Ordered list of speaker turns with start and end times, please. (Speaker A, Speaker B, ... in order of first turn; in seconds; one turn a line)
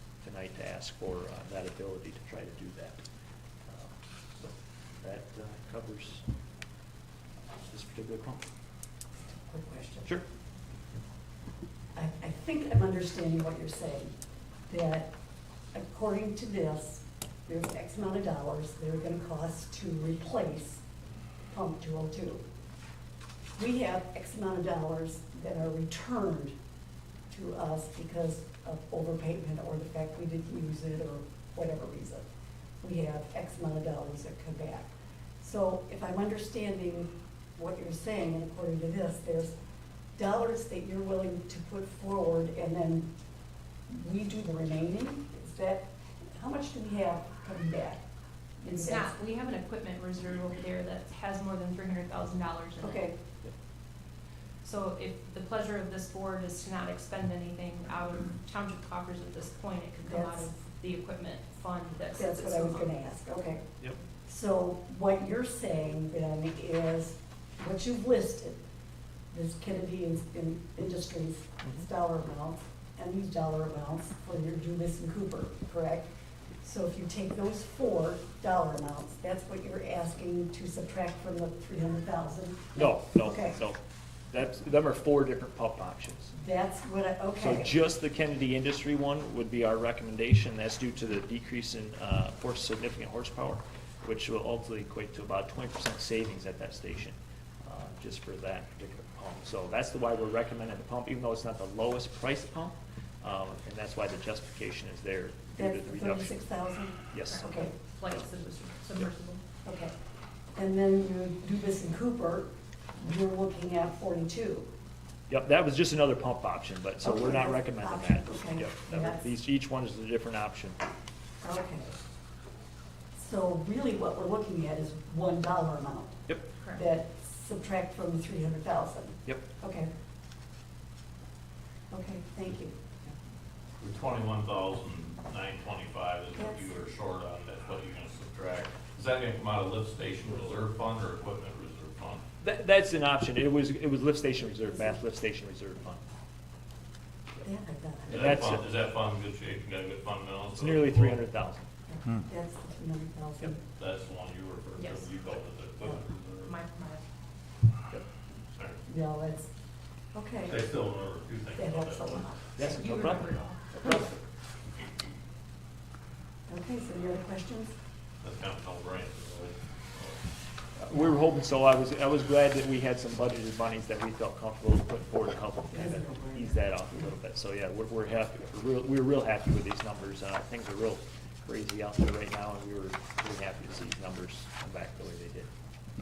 Speaker A: 0.2-3.0
Speaker A: 3.7-6.2
Speaker A: 7.7-8.4
Speaker B: 9.4-10.2
Speaker B: 11.9-14.1
Speaker B: 14.7-15.1
Speaker B: 15.7-20.8
Speaker B: 21.5-22.4
Speaker B: 23.6-26.5
Speaker B: 27.3-32.3
Speaker B: 32.8-39.6
Speaker B: 40.2-43.1
Speaker B: 43.9-48.0
Speaker B: 48.6-49.1
Speaker C: 48.8-53.1
Speaker B: 52.8-53.2
Speaker C: 54.6-62.9
Speaker B: 60.0-60.6
Speaker B: 62.1-63.6
Speaker B: 64.3-68.6
Speaker B: 69.3-76.1
Speaker B: 76.6-83.6
Speaker A: 82.8-83.8
Speaker A: 84.3-86.3
Speaker B: 86.3-87.8
Speaker A: 87.4-106.4
Speaker B: 105.5-107.7
Speaker A: 107.1-107.5
Speaker C: 107.3-109.4
Speaker B: 109.7-110.0
Speaker B: 110.5-114.7
Speaker A: 115.3-120.8
Speaker B: 117.0-119.3
Speaker B: 121.4-122.0
Speaker B: 123.2-129.9
Speaker B: 131.9-132.8
Speaker D: 133.8-142.2
Speaker B: 136.4-136.6
Speaker A: 142.4-146.0
Speaker B: 147.4-148.4
Speaker D: 148.1-151.2
Speaker A: 148.1-148.7
Speaker A: 150.5-151.7
Speaker B: 151.9-153.6
Speaker D: 153.8-156.6
Speaker C: 154.8-155.1
Speaker C: 156.4-157.0
Speaker D: 158.6-158.8
Speaker B: 158.9-159.5
Speaker B: 160.1-160.6
Speaker D: 160.4-162.3
Speaker B: 161.5-164.2
Speaker A: 162.6-164.1
Speaker C: 162.6-163.6
Speaker B: 166.5-167.8
Speaker D: 168.2-170.2
Speaker A: 170.8-185.5
Speaker B: 175.7-177.1